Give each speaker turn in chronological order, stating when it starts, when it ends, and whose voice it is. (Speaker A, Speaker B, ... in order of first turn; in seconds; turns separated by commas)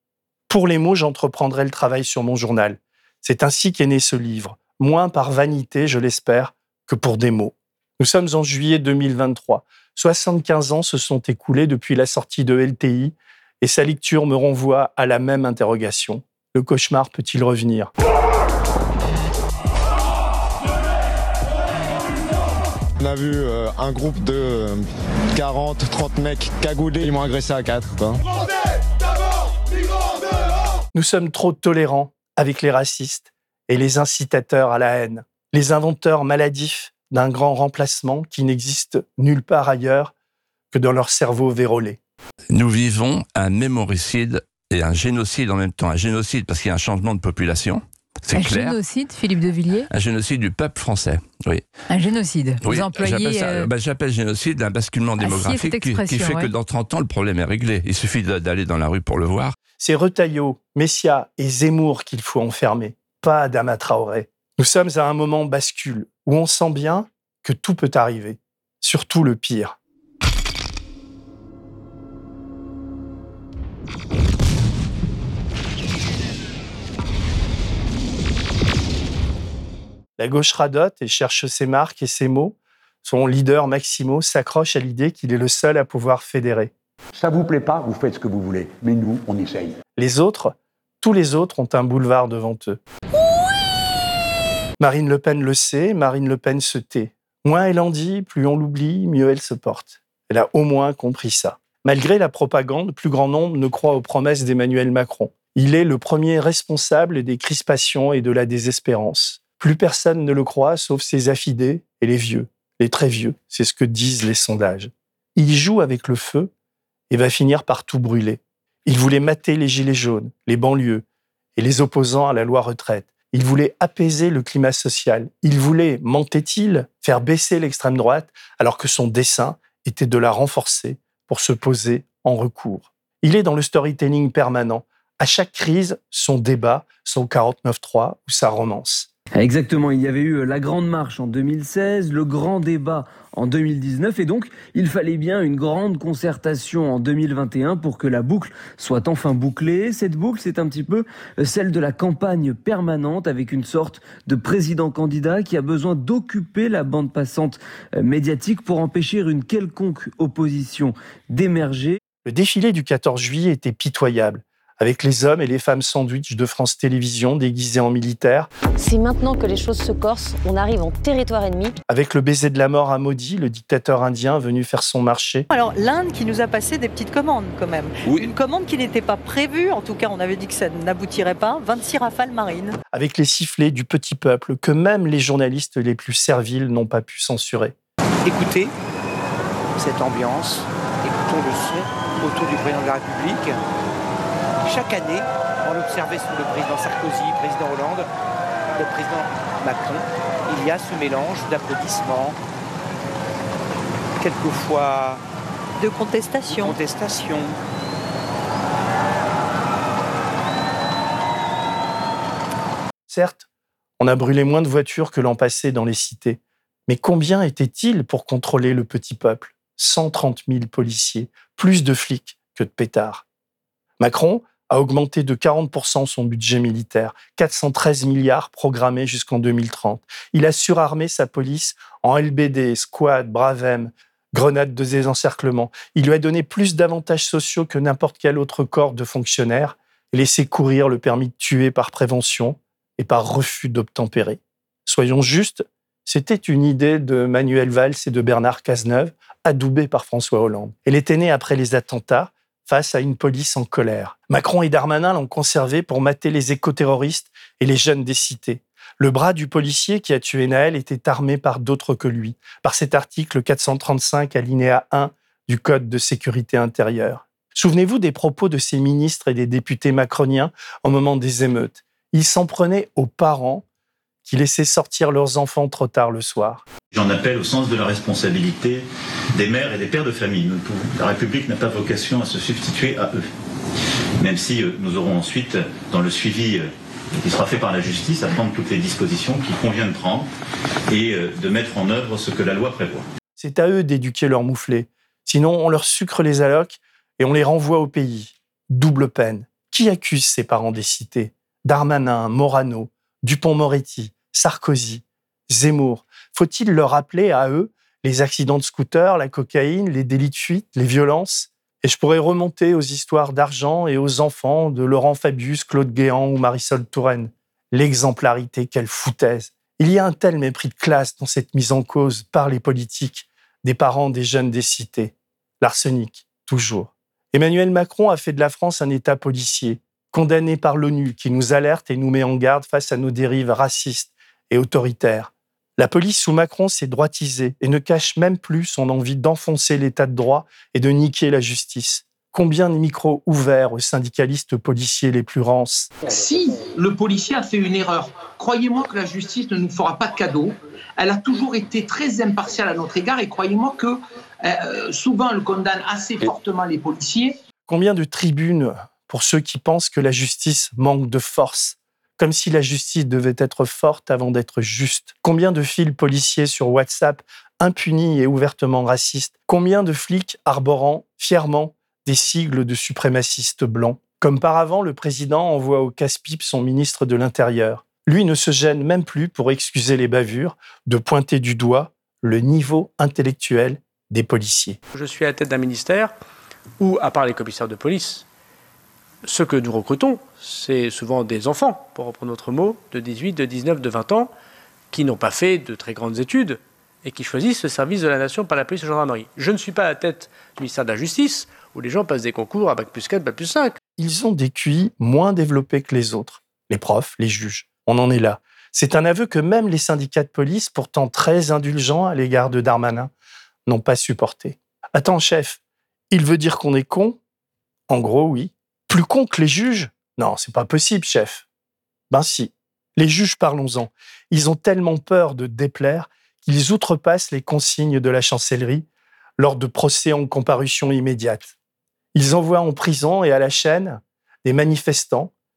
Speaker A: 0.5-17.9, Speaker B: 23.0-24.8, Speaker B: 25.4-28.2, Speaker A: 30.9-40.1, Speaker A: 40.7-42.0, Speaker C: 42.5-48.8, Speaker D: 48.3-49.9, Speaker C: 49.9-51.6, Speaker D: 51.9-53.7, Speaker C: 52.6-59.5, Speaker D: 55.2-56.5, Speaker A: 59.8-69.8, Speaker A: 80.2-86.7, Speaker E: 87.2-89.8, Speaker A: 90.0-92.8, Speaker A: 94.8-116.5, Speaker A: 117.1-121.0, Speaker A: 121.6-139.1, Speaker F: 139.4-162.0, Speaker A: 162.2-168.5, Speaker G: 168.8-171.8, Speaker A: 171.9-175.5, Speaker H: 175.5-182.7, Speaker C: 178.0-178.3, Speaker A: 182.9-187.8, Speaker I: 188.2-188.7, Speaker I: 189.8-193.6, Speaker I: 194.6-198.1, Speaker I: 198.8-202.4, Speaker I: 204.2-205.2, Speaker H: 205.8-206.8, Speaker I: 206.4-207.6, Speaker A: 213.1-213.5, Speaker A: 214.0-223.2, Speaker A: 224.0-273.6, Speaker A: 274.2-276.7, Speaker J: 276.9-283.3, Speaker J: 284.2-290.3, Speaker J: 290.9-293.1, Speaker A: 293.4-345.9, Speaker K: 346.0-357.4, Speaker A: 357.7-384.8, Speaker L: 384.9-386.1, Speaker L: 386.8-388.2, Speaker L: 389.2-394.3, Speaker L: 394.9-403.8, Speaker A: 404.0-413.1, Speaker A: 413.7-415.6, Speaker A: 416.1-417.2, Speaker A: 417.9-421.5, Speaker A: 422.1-428.9, Speaker A: 429.4-431.6, Speaker A: 432.1-435.3